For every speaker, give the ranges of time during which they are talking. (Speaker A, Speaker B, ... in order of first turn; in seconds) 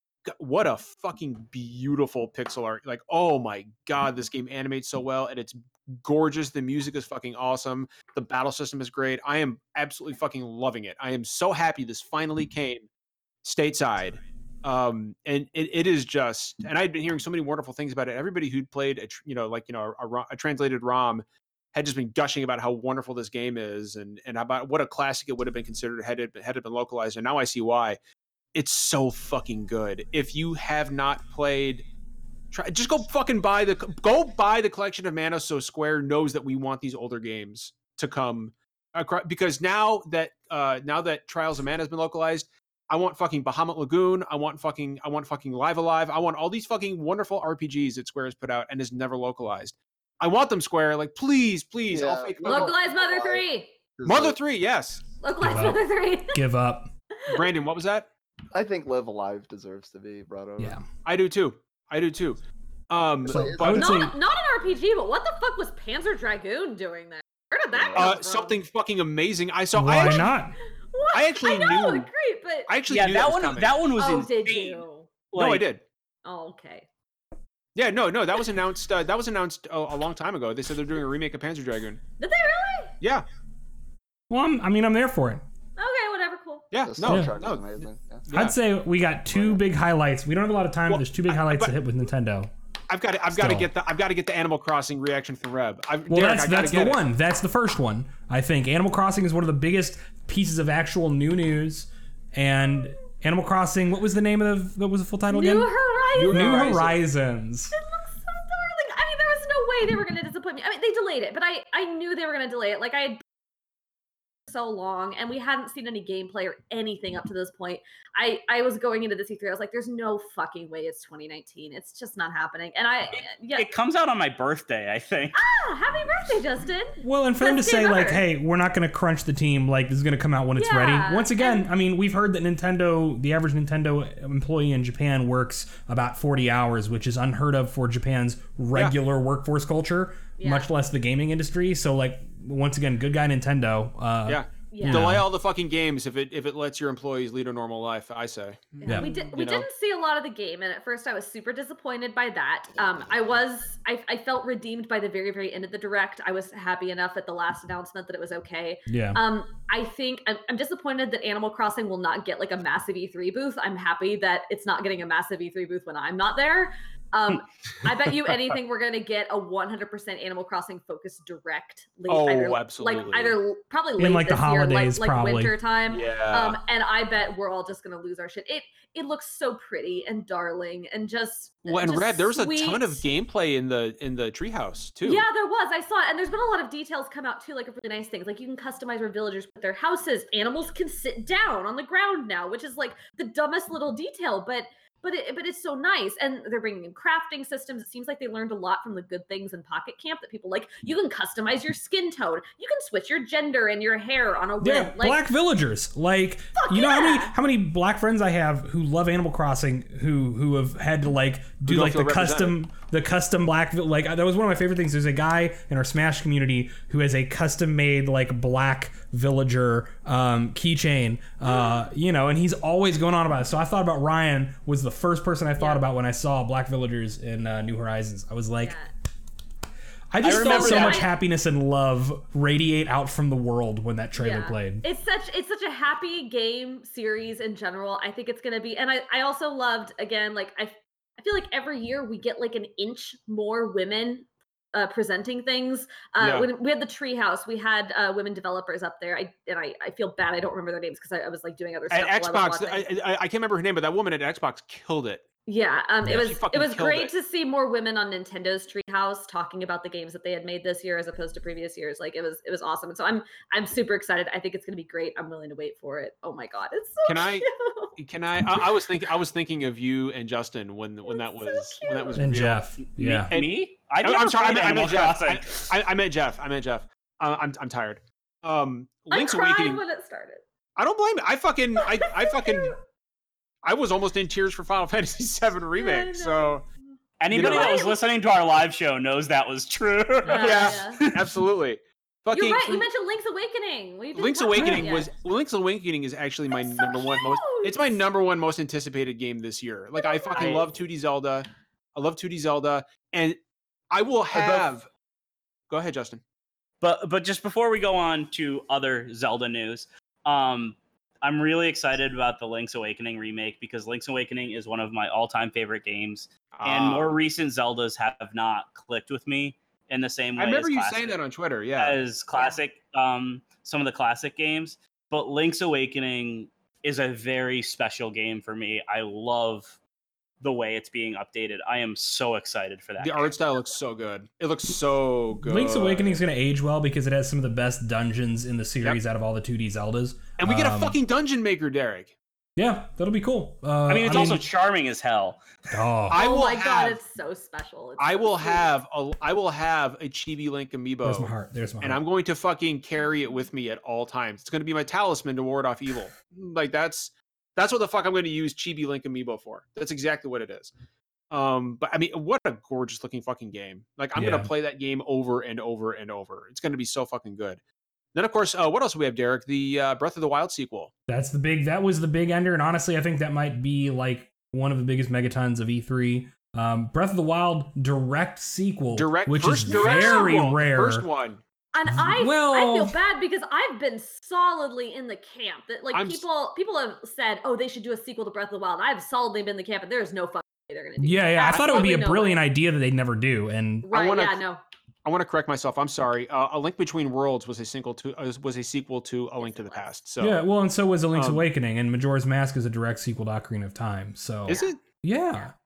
Speaker A: 0.3-12.9, 13.4-28.0, 28.5-31.9, 32.5-52.7, 54.1-55.0, 57.3-58.1, 61.0-64.1, 67.9-70.3, 71.1-72.1, 72.7-73.8, 75.3-75.8, 77.8-82.0, 86.7-87.7, 88.3-88.6, 90.9-91.8, 92.9-97.0, 106.2-107.0, 144.3-149.7, 172.1-173.4, 175.9-176.6, 181.7-185.2, 211.6-212.6, 246.2-246.5, 251.9-255.2, 256.1-257.1, 267.1-272.8, 273.3-279.8, 280.8-282.8, 283.6-286.6, 287.3-287.9, 290.3-292.9, 294.1-303.4, 303.9-304.9, 305.7-306.2, 316.6-317.1, 320.4-322.0, 333.0-336.2, 340.4-342.2, 344.1-344.4, 346.1-347.0, 348.0-360.7, 361.3-367.6, 368.1-370.9, 378.9-381.4, 385.9-386.2, 391.5-391.9, 393.9-394.4, 395.1-400.4, 401.1-401.4, 404.4-404.8
Speaker B: 51.9-54.4, 58.5-60.8, 63.2-64.0, 67.8-68.0, 86.8-88.3, 89.3-89.6
Speaker C: 52.4-53.8, 55.2-56.4, 63.7-68.6, 70.0-72.7, 74.0-75.1, 76.2-76.9, 82.2-83.0, 85.8-86.7, 105.3-106.8, 107.7-113.2, 114.5-123.7, 125.3-128.3, 130.6-131.7, 140.4-140.7, 144.7-145.1, 148.8-183.0, 185.0-205.2, 206.6-207.3, 221.4-221.8, 225.6-225.8, 228.6-228.9, 230.3-231.1, 234.2-252.9, 255.5-267.9, 268.5-268.8, 271.1-272.2, 279.1-280.4, 281.8-282.8, 285.7-286.6, 287.3-288.0, 290.3-291.0, 292.3-295.1, 296.5-298.0, 299.9-300.7, 346.1-348.7, 379.7-380.4, 381.7-392.4, 393.8-394.6, 399.4-399.9, 404.5-404.8
Speaker D: 55.4-56.9, 63.3-64.1, 69.7-70.6, 84.3-85.4, 87.0-87.3, 88.3-92.5, 93.3-93.7, 96.1-105.7, 106.3-107.7, 127.0-145.3, 148.8-149.1, 158.9-159.2, 174.0-175.6, 204.6-228.8, 230.1-234.8, 272.2-273.3, 335.4-341.0, 342.6-344.4, 345.7-346.2, 351.1-352.0, 364.2-364.5, 371.1-381.1, 381.9-382.9, 391.0-393.9, 400.2-405.5
Speaker E: 72.9-75.7, 123.1-125.4, 230.2-231.1, 272.9-275.7, 287.2-291.3, 304.3-304.6, 306.8-321.2, 321.8-329.8, 330.4-333.3, 343.9-345.4